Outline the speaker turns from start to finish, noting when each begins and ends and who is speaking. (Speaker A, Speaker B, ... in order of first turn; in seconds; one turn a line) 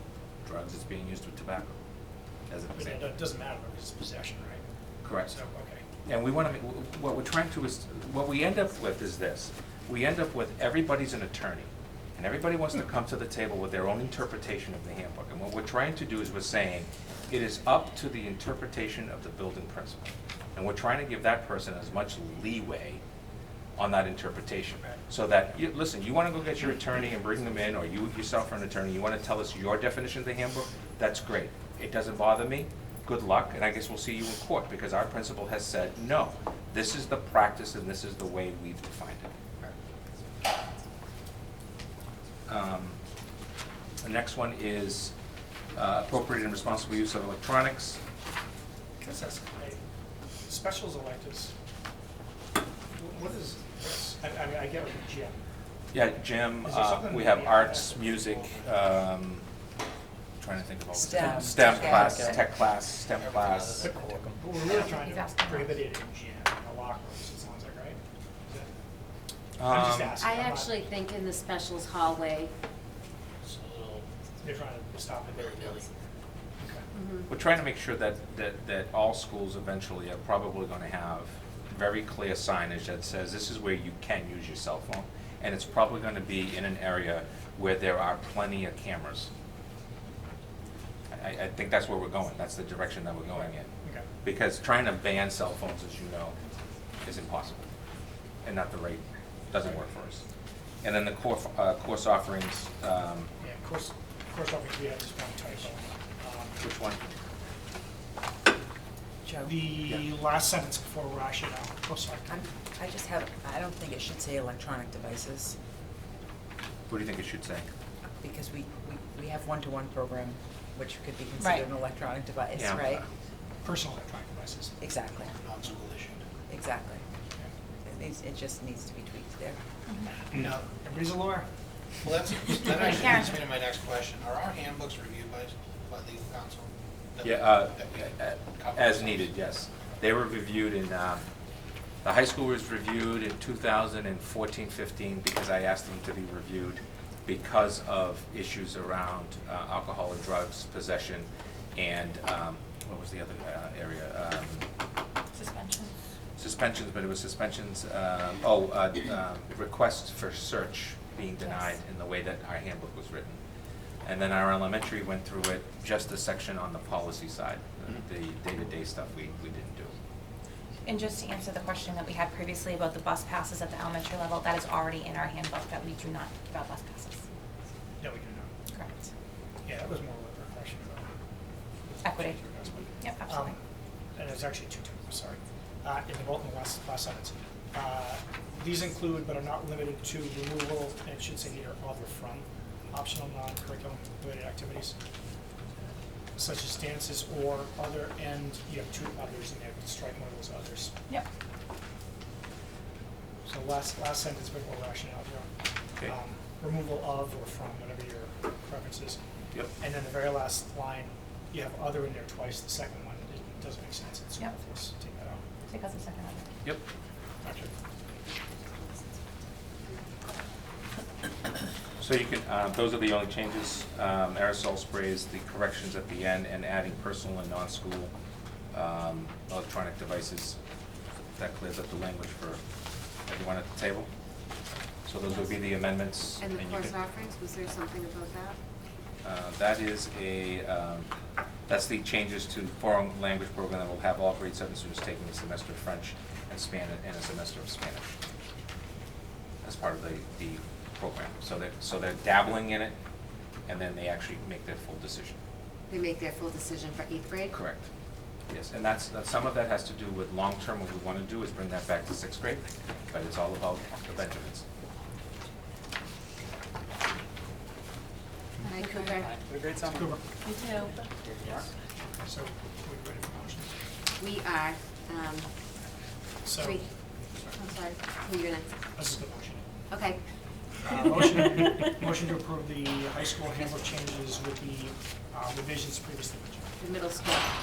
Speaker A: 0.4-1.8
Speaker A: 2.5-3.0
Speaker B: 2.8-4.6
Speaker A: 5.0-5.3
Speaker B: 5.3-5.8
Speaker A: 6.1-23.0
Speaker A: 23.8-39.3
Speaker A: 42.5-43.0
Speaker A: 44.0-45.1
Speaker A: 45.7-48.0
Speaker B: 49.0-49.8
Speaker B: 50.5-51.5
Speaker B: 53.0-55.4
Speaker A: 55.9-59.5
Speaker B: 56.6-58.7
Speaker A: 60.4-63.9
Speaker C: 60.9-62.4
Speaker D: 63.1-63.9
Speaker B: 63.8-68.7
Speaker E: 64.7-65.8
Speaker A: 69.6-70.2
Speaker B: 69.7-70.8
Speaker F: 70.2-72.5
Speaker D: 73.4-74.1
Speaker B: 74.4-75.9
Speaker D: 75.3-75.9
Speaker B: 76.6-76.9
Speaker F: 76.9-77.3
Speaker A: 77.3-89.3
Speaker A: 91.1-93.7
Speaker A: 94.2-96.3
Speaker A: 97.0-97.7
Speaker A: 98.4-100.2
Speaker A: 100.8-103.3
Speaker B: 103.4-106.7
Speaker A: 106.6-107.0
Speaker C: 109.2-109.8
Speaker B: 109.5-112.4
Speaker C: 112.3-115.6
Speaker A: 116.9-117.7
Speaker C: 118.2-123.1
Speaker E: 121.4-121.7
Speaker A: 122.5-123.0
Speaker B: 123.6-124.8
Speaker C: 124.8-125.3
Speaker D: 125.3-126.3
Speaker C: 126.5-127.0
Speaker C: 127.8-129.6
Speaker E: 129.9-130.1
Speaker B: 130.3-131.5
Speaker D: 132.0-139.3
Speaker B: 132.5-133.1
Speaker E: 132.9-133.3
Speaker A: 137.2-141.2
Speaker A: 142.0-154.7
Speaker E: 155.3-155.9
Speaker A: 156.4-163.4
Speaker E: 161.4-161.8
Speaker A: 164.0-169.9
Speaker E: 170.8-177.2
Speaker B: 178.0-178.5
Speaker E: 178.7-179.0
Speaker B: 179.7-181.1
Speaker B: 181.8-183.6
Speaker E: 182.0-182.4
Speaker E: 183.0-183.6
Speaker B: 184.2-195.0
Speaker B: 196.3-200.9
Speaker B: 203.5-205.5
Speaker B: 206.0-209.2
Speaker B: 209.8-215.4
Speaker E: 215.7-216.5
Speaker B: 217.4-217.7
Speaker A: 222.0-228.1
Speaker A: 228.7-230.6
Speaker A: 231.4-232.6
Speaker A: 233.3-234.1
Speaker A: 235.1-236.9
Speaker F: 236.4-238.6
Speaker A: 239.2-241.1
Speaker A: 241.7-248.2
Speaker A: 249.6-253.0
Speaker A: 253.7-255.4
Speaker F: 255.9-257.6
Speaker A: 257.5-257.9
Speaker A: 258.5-264.6
Speaker F: 268.6-269.4
Speaker B: 269.9-270.2
Speaker F: 270.4-270.9
Speaker B: 272.2-273.8
Speaker F: 274.2-275.5
Speaker B: 276.4-277.6
Speaker F: 276.6-276.9
Speaker F: 277.5-278.7
Speaker B: 278.9-279.6
Speaker F: 279.9-280.2
Speaker B: 280.8-286.7
Speaker F: 286.8-287.5